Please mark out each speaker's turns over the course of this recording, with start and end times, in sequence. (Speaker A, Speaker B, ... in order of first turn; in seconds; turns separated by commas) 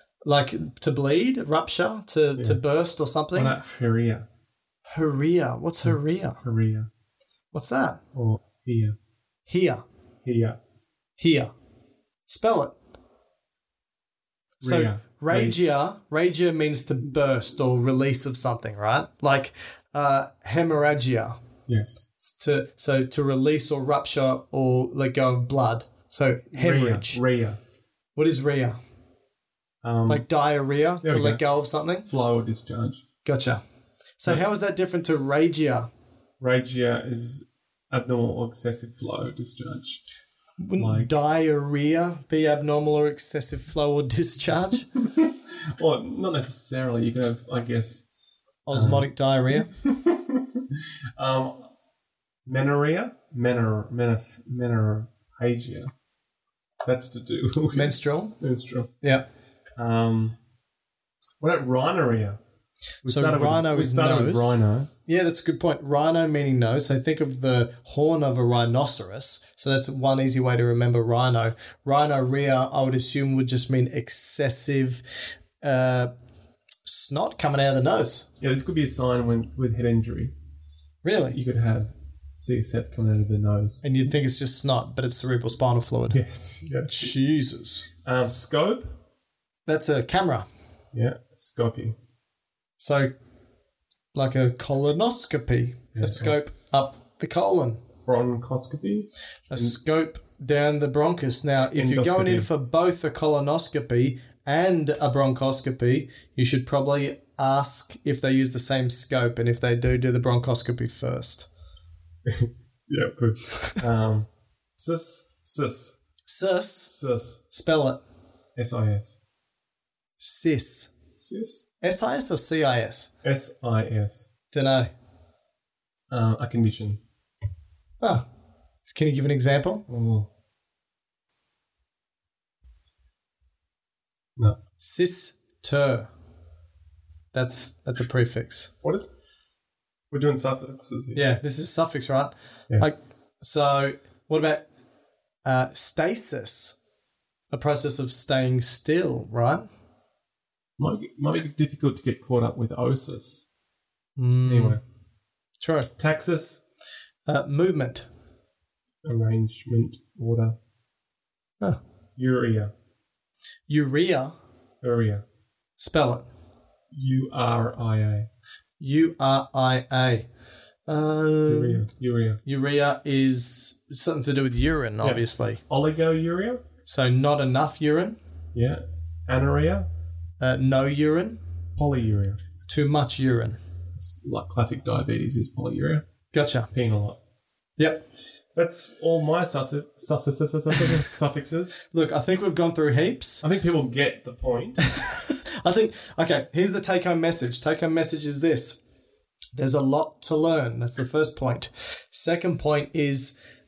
Speaker A: 0.2-3.5, Speaker B: 3.3-4.3, Speaker A: 4.9-6.4, Speaker B: 5.8-6.9, Speaker A: 7.5-8.0, Speaker B: 8.1-8.9, Speaker A: 9.5-9.8, Speaker B: 10.2-10.6, Speaker A: 11.2-11.5, Speaker A: 12.3-12.7, Speaker B: 14.6-15.6, Speaker A: 14.6-21.4, Speaker B: 21.7-22.1, Speaker A: 22.2-27.2, Speaker B: 26.5-27.6, Speaker A: 28.1-28.8, Speaker B: 29.8-30.3, Speaker A: 30.1-32.1, Speaker B: 31.0-31.4, Speaker B: 32.0-33.0, Speaker A: 33.2-33.6, Speaker A: 34.2-35.9, Speaker B: 36.4-40.0, Speaker A: 40.6-44.9, Speaker B: 40.8-41.2, Speaker B: 45.0-48.1, Speaker A: 48.7-49.7, Speaker B: 48.7-51.7, Speaker B: 52.5-55.9, Speaker B: 56.8-58.9, Speaker A: 57.7-58.4, Speaker A: 59.0-59.2, Speaker B: 59.8-60.4, Speaker B: 61.4-62.4, Speaker B: 63.0-64.9, Speaker A: 63.0-76.1, Speaker A: 76.8-78.3, Speaker B: 78.4-80.3, Speaker A: 81.0-81.4, Speaker B: 81.3-83.8, Speaker A: 83.8-86.2, Speaker B: 86.1-87.1, Speaker A: 86.9-87.9, Speaker B: 88.0-88.9, Speaker A: 89.7-90.5, Speaker B: 90.9-92.0, Speaker A: 92.8-93.1, Speaker A: 94.1-97.8, Speaker B: 95.9-96.3, Speaker B: 98.0-99.8, Speaker A: 99.5-111.5, Speaker B: 101.7-102.5, Speaker B: 112.2-116.0, Speaker A: 116.3-118.0, Speaker B: 116.9-117.4, Speaker B: 118.5-119.2, Speaker A: 120.2-121.0, Speaker B: 121.2-121.7, Speaker A: 121.8-123.1, Speaker B: 123.2-124.3, Speaker A: 124.5-124.9, Speaker B: 126.1-127.0, Speaker A: 128.0-128.3, Speaker A: 128.8-129.8, Speaker B: 129.9-130.3, Speaker A: 134.8-136.1, Speaker A: 137.3-138.7, Speaker B: 138.8-139.2, Speaker B: 140.1-141.2, Speaker A: 141.1-144.7, Speaker A: 145.4-146.8, Speaker A: 147.5-149.7, Speaker B: 150.8-153.5, Speaker A: 154.2-154.8, Speaker B: 154.4-154.8, Speaker A: 155.6-155.9, Speaker B: 156.0-156.6, Speaker A: 157.3-158.1, Speaker B: 159.0-160.6, Speaker B: 162.2-162.7, Speaker A: 163.7-164.3, Speaker B: 164.8-165.2, Speaker A: 165.8-166.3, Speaker B: 166.9-168.3, Speaker A: 168.8-170.3, Speaker A: 170.9-171.9, Speaker B: 171.4-172.4, Speaker A: 172.4-175.6, Speaker B: 175.0-176.6, Speaker A: 176.8-178.2, Speaker B: 178.5-179.9, Speaker A: 180.4-181.4, Speaker B: 181.8-182.4, Speaker A: 182.7-183.6, Speaker B: 183.9-186.1, Speaker A: 186.3-186.7, Speaker B: 186.7-187.2, Speaker A: 187.8-188.0, Speaker B: 188.5-191.8, Speaker A: 191.9-193.4, Speaker B: 193.4-194.9, Speaker A: 194.8-198.8, Speaker A: 199.5-203.4